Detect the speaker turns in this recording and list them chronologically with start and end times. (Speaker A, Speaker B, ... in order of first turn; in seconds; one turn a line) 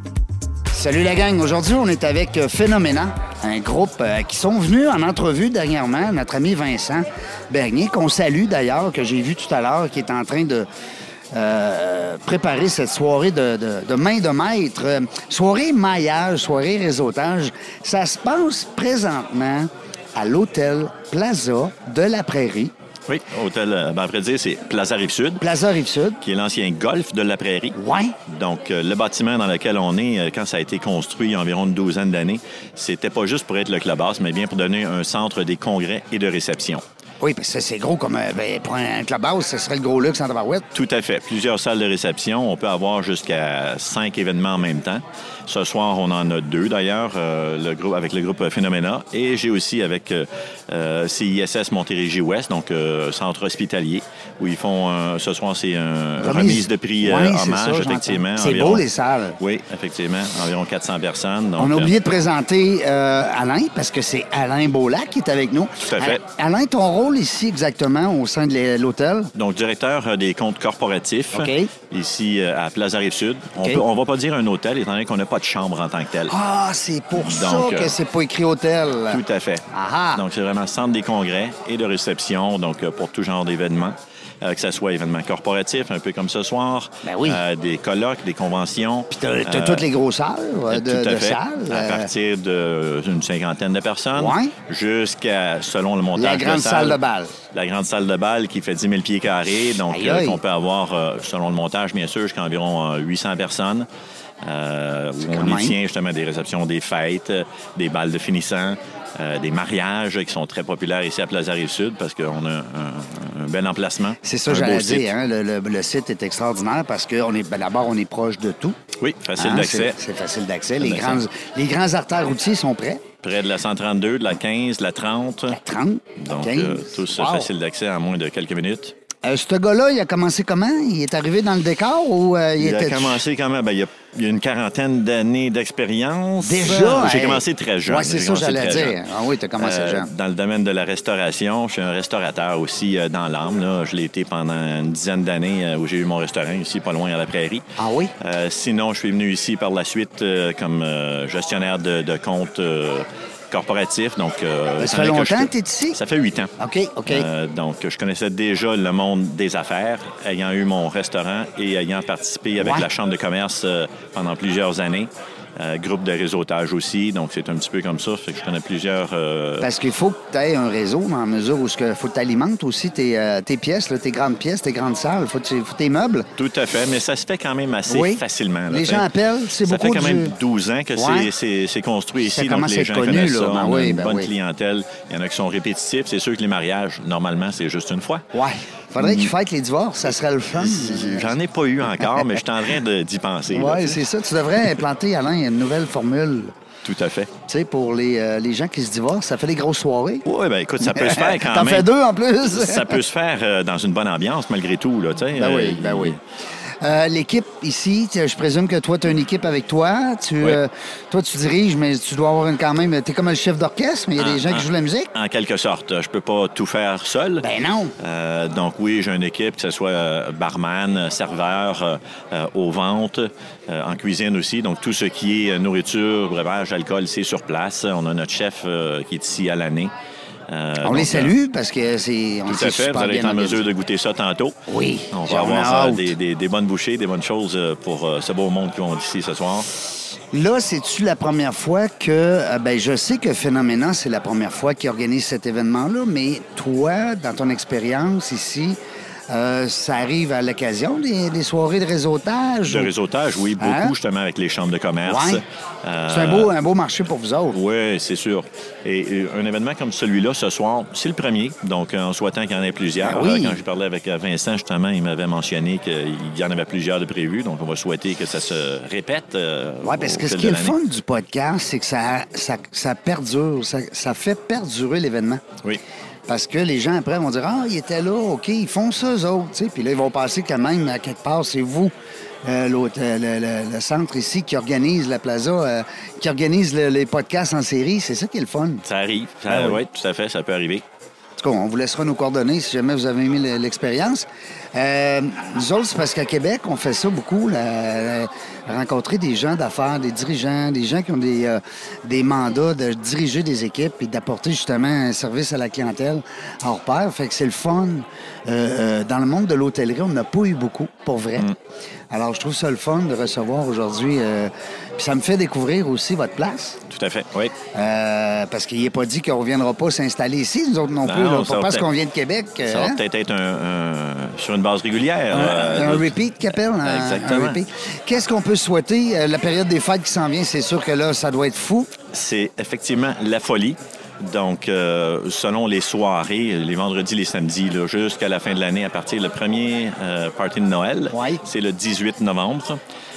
Speaker A: 0.7-10.7
Speaker A: 11.3-22.7
Speaker B: 23.1-25.4
Speaker A: 25.4-26.2
Speaker B: 26.2-27.8
Speaker A: 27.7-28.2
Speaker B: 28.3-36.8
Speaker A: 37.2-40.7
Speaker B: 40.7-58.9
Speaker A: 56.2-59.4
Speaker B: 59.4-61.9
Speaker A: 61.6-69.3
Speaker B: 65.8-66.2
Speaker B: 69.3-76.3
Speaker A: 71.3-71.7
Speaker A: 76.3-80.2
Speaker B: 77.1-78.0
Speaker B: 79.1-79.6
Speaker B: 80.2-89.9
Speaker A: 87.0-87.4
Speaker A: 89.1-92.1
Speaker B: 90.7-97.0
Speaker A: 94.2-94.5
Speaker A: 96.2-97.3
Speaker B: 97.5-103.9
Speaker A: 99.9-100.4
Speaker B: 104.4-115.1
Speaker A: 105.2-105.8
Speaker A: 114.2-118.8
Speaker B: 119.0-120.0
Speaker A: 119.4-123.0
Speaker B: 120.8-121.2
Speaker B: 123.2-125.6
Speaker A: 125.5-127.5
Speaker B: 126.2-128.9
Speaker A: 129.2-133.2
Speaker B: 132.6-139.0
Speaker A: 136.4-140.1
Speaker B: 139.6-147.6
Speaker A: 147.8-148.1
Speaker B: 148.2-156.5
Speaker A: 154.8-156.0
Speaker A: 156.6-157.3
Speaker B: 157.1-169.7
Speaker A: 162.6-162.9
Speaker A: 169.6-176.3
Speaker B: 176.4-179.1
Speaker A: 177.9-180.4
Speaker B: 179.6-188.2
Speaker A: 181.0-181.3
Speaker A: 182.2-184.3
Speaker A: 188.3-191.4
Speaker B: 189.0-189.3
Speaker B: 190.5-194.0
Speaker A: 193.5-196.5
Speaker B: 196.8-197.3
Speaker A: 197.5-200.2
Speaker B: 200.3-201.9
Speaker A: 200.8-203.0
Speaker B: 202.4-206.2
Speaker A: 205.3-206.2
Speaker A: 206.8-215.1
Speaker B: 214.2-217.4
Speaker A: 217.4-217.9
Speaker B: 218.0-229.9
Speaker B: 230.5-231.3
Speaker A: 230.8-233.7
Speaker B: 232.5-234.6
Speaker A: 234.7-236.1
Speaker B: 235.1-239.7
Speaker A: 240.3-248.8
Speaker A: 249.3-252.9
Speaker B: 252.7-256.5
Speaker A: 253.6-254.0
Speaker A: 255.1-255.4
Speaker A: 256.1-257.6
Speaker B: 257.5-270.8
Speaker A: 263.0-263.6
Speaker A: 269.8-275.4
Speaker A: 276.3-281.9
Speaker A: 282.4-288.8
Speaker B: 288.9-290.8
Speaker A: 289.5-289.8
Speaker A: 291.4-311.5
Speaker A: 312.1-316.8
Speaker B: 316.9-317.6
Speaker A: 317.7-323.0
Speaker B: 321.0-321.9
Speaker B: 322.6-327.6
Speaker A: 325.3-331.9
Speaker B: 332.1-342.8
Speaker A: 341.1-341.4